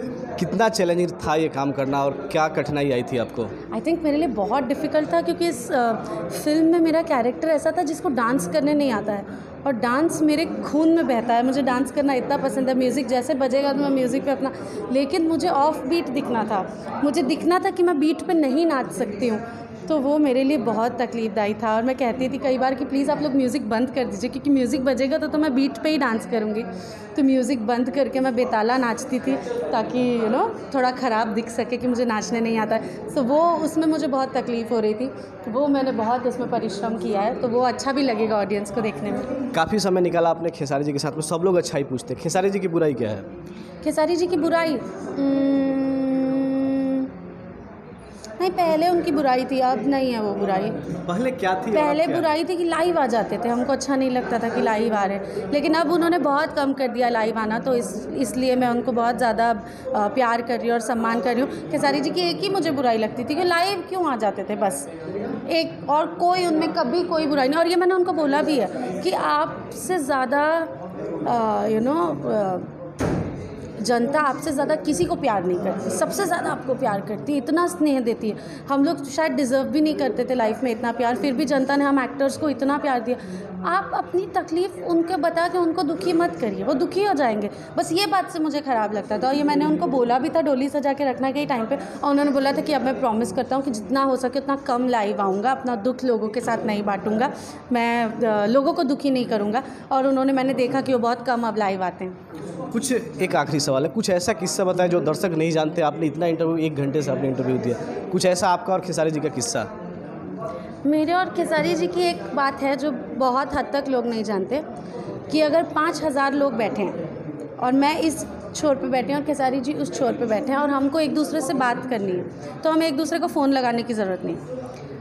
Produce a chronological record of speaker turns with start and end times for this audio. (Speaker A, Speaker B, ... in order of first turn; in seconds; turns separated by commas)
Speaker A: 0.4-3.5, Speaker B: 3.7-39.3, Speaker A: 39.5-43.3, Speaker B: 43.8-47.1, Speaker B: 48.4-50.9, Speaker A: 51.0-52.3, Speaker B: 51.7-64.9, Speaker B: 65.5-70.7, Speaker B: 71.2-72.7, Speaker B: 73.8-102.2, Speaker A: 102.7-109.7, Speaker B: 110.8-114.6, Speaker B: 115.3-117.0, Speaker B: 117.6-124.4